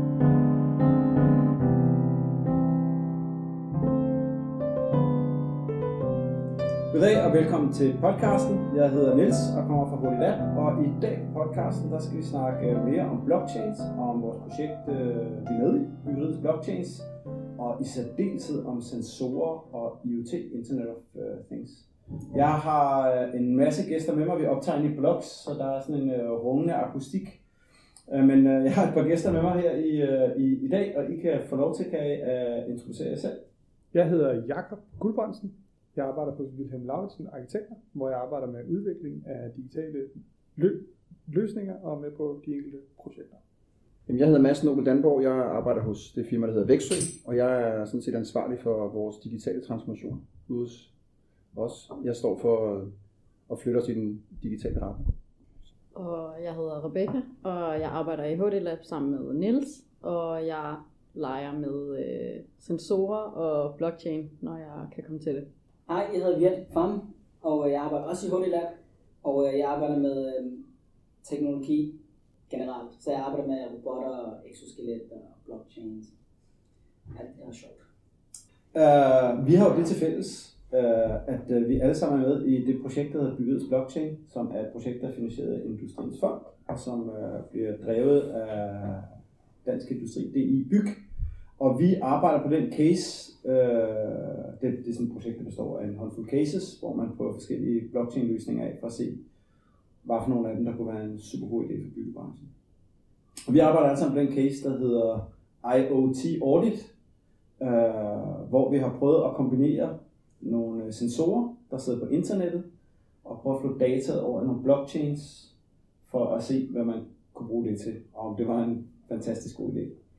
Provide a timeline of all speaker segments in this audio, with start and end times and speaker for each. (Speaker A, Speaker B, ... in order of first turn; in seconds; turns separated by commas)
Speaker A: 6.9-27.4, Speaker A: 28.1-33.4, Speaker B: 33.9-43.4, Speaker C: 44.1-50.9, Speaker C: 51.5-52.9, Speaker C: 53.5-55.1, Speaker D: 55.9-65.5, Speaker E: 65.9-70.6, Speaker E: 71.2-72.0, Speaker E: 72.5-76.2, Speaker E: 77.1-77.8, Speaker A: 78.7-89.1, Speaker A: 89.6-91.0, Speaker A: 91.6-99.2, Speaker A: 100.0-102.5, Speaker A: 103.5-106.9, Speaker A: 107.6-112.7, Speaker A: 113.2-115.5, Speaker A: 116.0-119.9